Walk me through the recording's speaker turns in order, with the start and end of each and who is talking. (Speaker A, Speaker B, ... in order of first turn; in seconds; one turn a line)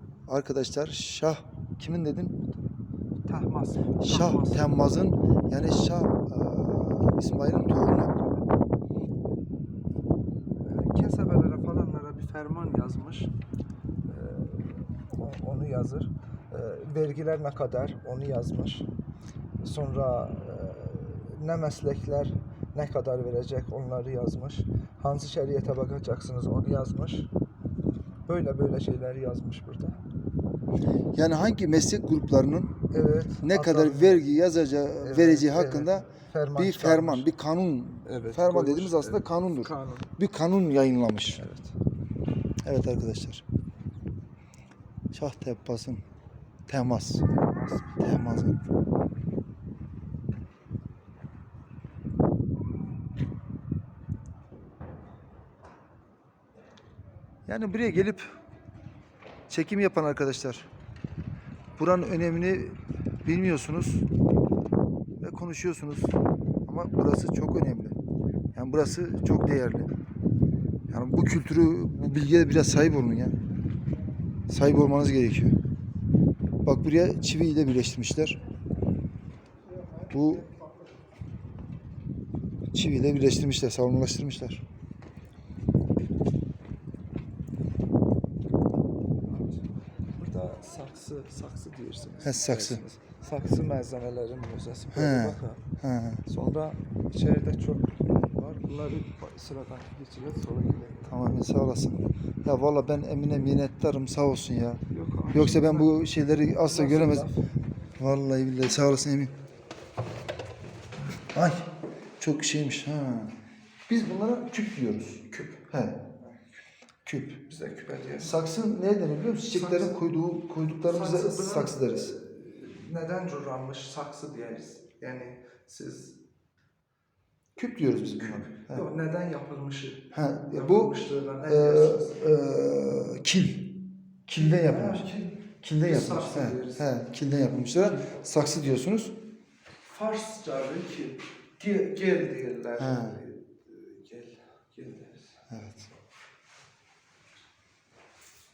Speaker A: 0.3-2.4
Speaker B: 3.3-4.9
Speaker A: 4.0-8.1
Speaker B: 8.1-8.5
Speaker B: 10.6-13.3
Speaker B: 14.0-18.9
Speaker B: 19.6-27.3
Speaker B: 28.3-30.1
Speaker A: 31.1-32.7
Speaker B: 32.9-34.3
Speaker A: 33.4-41.4
Speaker B: 35.0-37.3
Speaker B: 38.0-40.1
Speaker B: 41.3-41.7
Speaker A: 42.6-43.4
Speaker A: 45.1-46.0
Speaker A: 46.7-47.2
Speaker B: 47.3-48.0
Speaker A: 48.0-48.6
Speaker A: 57.5-58.2
Speaker A: 59.5-60.7
Speaker A: 61.8-64.1
Speaker A: 65.2-68.0
Speaker A: 68.5-69.9
Speaker A: 70.9-73.4
Speaker A: 74.5-75.5
Speaker A: 76.6-78.4
Speaker A: 80.0-80.5
Speaker A: 82.7-84.6
Speaker B: 90.2-95.6
Speaker A: 92.2-92.8
Speaker A: 94.9-96.2
Speaker B: 96.2-101.1
Speaker A: 101.1-107.3
Speaker B: 104.9-106.0
Speaker B: 106.5-107.4
Speaker A: 108.0-109.3
Speaker A: 111.3-111.7
Speaker A: 112.2-113.3
Speaker A: 113.9-116.0
Speaker B: 115.3-115.6
Speaker A: 117.0-117.4
Speaker B: 117.5-118.3
Speaker A: 118.2-122.1
Speaker B: 119.5-119.9
Speaker B: 120.9-126.2
Speaker A: 127.6-128.8
Speaker B: 128.0-132.3
Speaker A: 130.1-139.2
Speaker B: 134.3-136.9
Speaker B: 139.8-145.3
Speaker A: 142.8-143.2
Speaker A: 145.5-145.8